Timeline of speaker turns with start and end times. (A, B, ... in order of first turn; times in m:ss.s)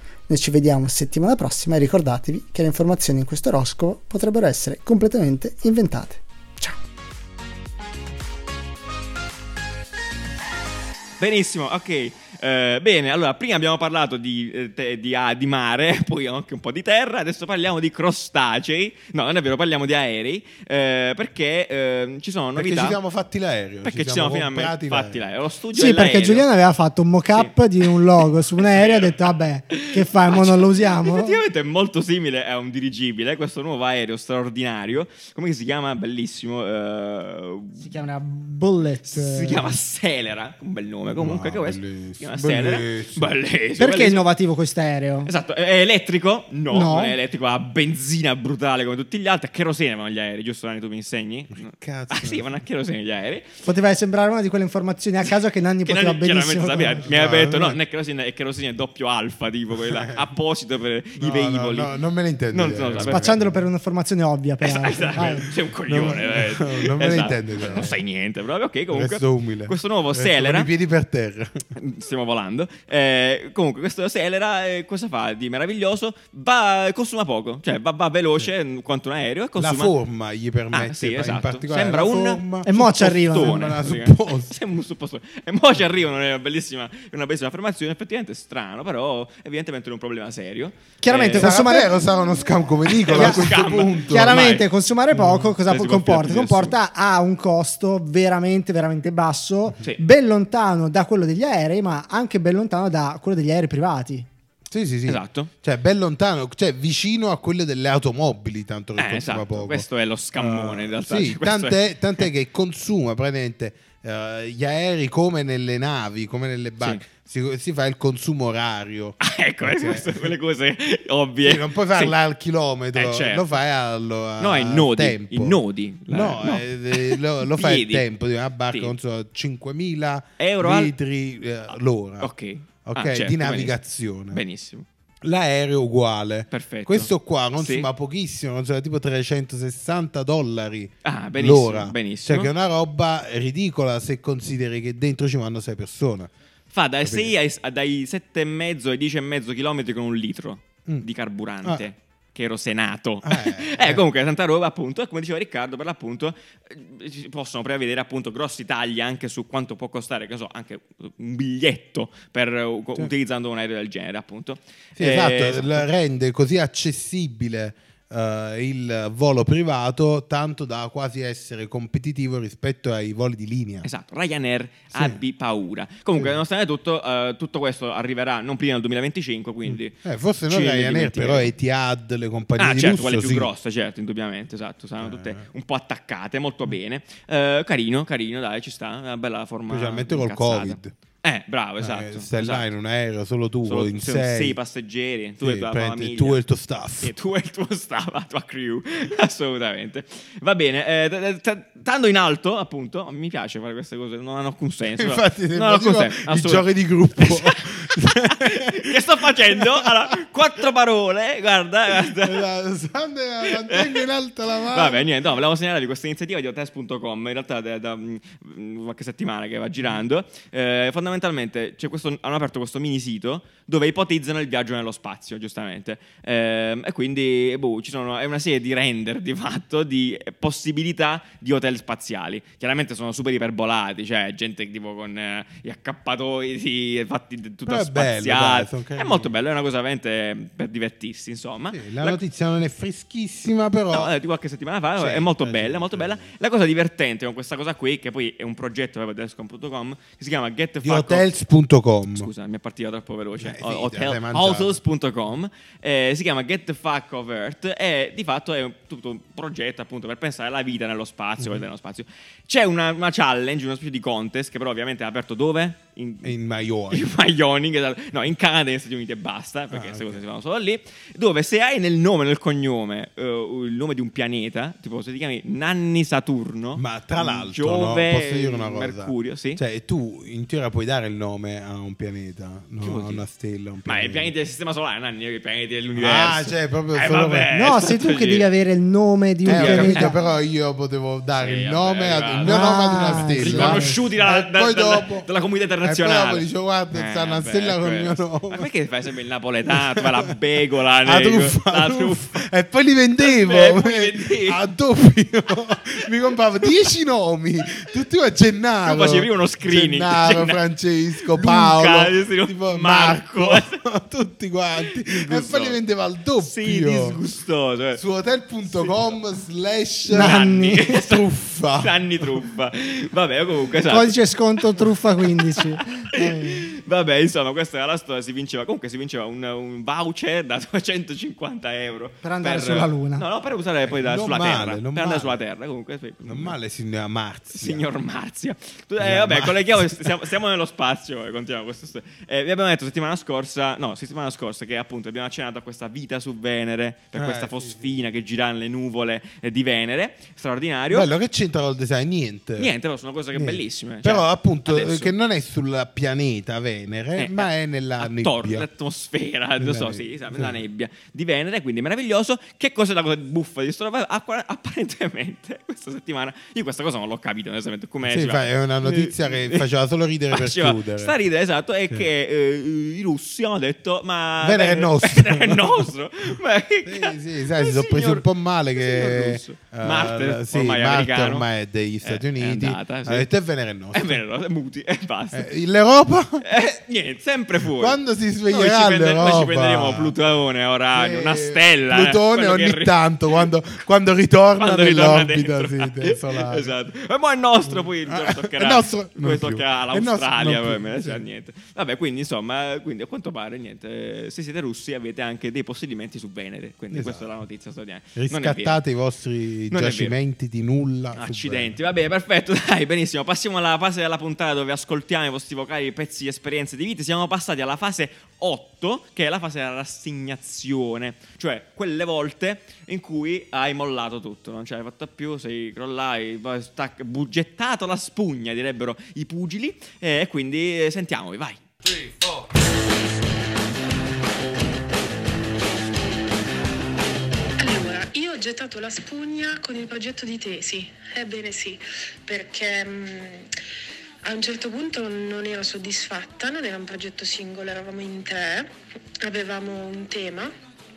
0:00.3-0:06.8 A
0:11.2-0:23.0 B
0:22.6-0:25.2 C
0:23.8-0:26.5 B
0:25.8-0:31.4 D
0:27.3-0:27.9 B
0:28.6-0:29.2 B
0:29.7-0:37.9 B
0:37.8-0:39.7 D
0:39.1-0:44.2 B
0:41.1-0:43.3 C
0:43.8-0:45.3 D
0:45.2-0:53.5 B
0:46.7-0:47.2 D
0:51.6-0:52.4 C
0:53.6-0:57.0 D
0:55.8-1:01.9 B
0:57.0-0:57.8 C
0:59.8-1:00.2 C
1:01.2-1:03.6 C
1:02.5-1:03.4 B
1:03.0-1:05.5 D
1:04.6-1:10.7 B
1:05.9-1:08.0 C
1:08.9-1:11.6 C
1:11.8-1:19.9 B
1:19.6-1:24.6 C
1:20.7-1:31.6 B
1:22.6-1:23.6 D
1:31.0-1:31.9 D
1:31.3-1:34.5 C
1:33.0-1:34.7 B
1:33.1-1:33.4 D
1:34.1-1:44.3 D
1:35.2-1:35.5 C
1:35.6-1:36.8 B
1:44.7-2:00.3 C
1:45.1-1:45.5 B
1:49.0-1:52.2 B
1:59.2-2:02.2 B
2:01.4-2:12.3 C
2:03.0-2:03.5 B
2:04.4-2:08.0 B
2:10.4-2:10.9 B
2:12.2-2:13.8 B
2:12.8-2:14.4 C
2:14.3-2:14.9 B
2:15.2-2:26.3 C
2:16.5-2:17.9 B
2:21.0-2:22.5 B
2:26.7-2:45.9 B
2:27.0-2:27.3 C
2:33.2-2:34.0 C
2:45.0-2:53.9 C
2:53.8-3:00.0 B
2:54.9-2:55.2 C
2:59.7-3:03.5 C
3:00.5-3:01.5 B
3:02.6-3:12.7 B
3:05.0-3:05.5 C
3:09.7-3:10.9 C
3:11.8-3:14.6 C
3:13.6-3:16.4 B
3:15.4-3:17.1 C
3:17.0-3:32.5 B
3:25.0-3:29.9 C
3:31.9-3:35.1 C
3:33.4-3:34.1 B
3:34.7-4:02.2 B
3:57.7-3:59.3 C
4:01.7-4:04.1 C
4:03.9-4:11.3 B
4:05.0-4:06.3 C
4:10.8-4:12.3 C
4:12.2-4:26.3 B
4:13.4-4:14.8 C
4:26.2-4:27.1 C
4:26.9-4:39.6 B
4:29.7-4:30.2 C
4:36.8-4:44.3 C
4:42.8-4:43.2 B
4:43.9-4:48.5 B
4:46.0-4:47.5 C
4:47.5-4:50.2 D
4:49.4-4:50.1 B
4:49.5-4:55.3 C
4:51.4-5:02.4 B
4:52.5-4:54.0 D
4:55.8-4:58.7 C
4:59.7-5:00.1 C
5:01.0-5:17.2 C
5:03.2-5:04.6 B
5:08.8-5:10.6 B
5:11.3-5:13.8 B
5:15.1-5:15.8 B
5:16.4-5:18.0 B
5:18.0-5:22.3 C
5:18.7-5:19.1 B
5:20.1-5:20.9 D
5:20.1-5:21.3 B
5:21.8-5:36.6 B
5:23.9-5:26.7 D
5:32.2-5:33.2 D
5:33.9-5:35.4 C
5:36.3-5:37.9 C
5:37.5-5:51.1 B
5:39.0-5:40.1 C
5:47.2-5:47.9 C
5:50.9-5:52.7 C
5:52.6-5:55.2 B
5:53.3-5:58.7 C
5:57.2-5:57.5 B
5:58.0-6:09.6 B
5:59.6-6:00.6 C
6:08.0-6:11.1 C
6:10.3-6:21.5 B
6:14.4-6:15.9 C
6:16.8-6:24.2 C
6:22.0-6:23.3 B
6:23.9-6:25.5 B
6:25.3-6:26.4 C
6:26.4-6:33.0 B
6:27.8-6:30.2 C
6:30.9-6:36.8 C
6:34.6-6:48.8 B
6:37.7-6:41.2 C
6:46.9-6:47.3 C
6:48.2-6:51.8 C
6:49.7-6:50.2 B
6:51.2-7:11.6 B
7:17.6-7:23.5 E
7:24.2-7:28.7 E
7:29.2-7:30.5 E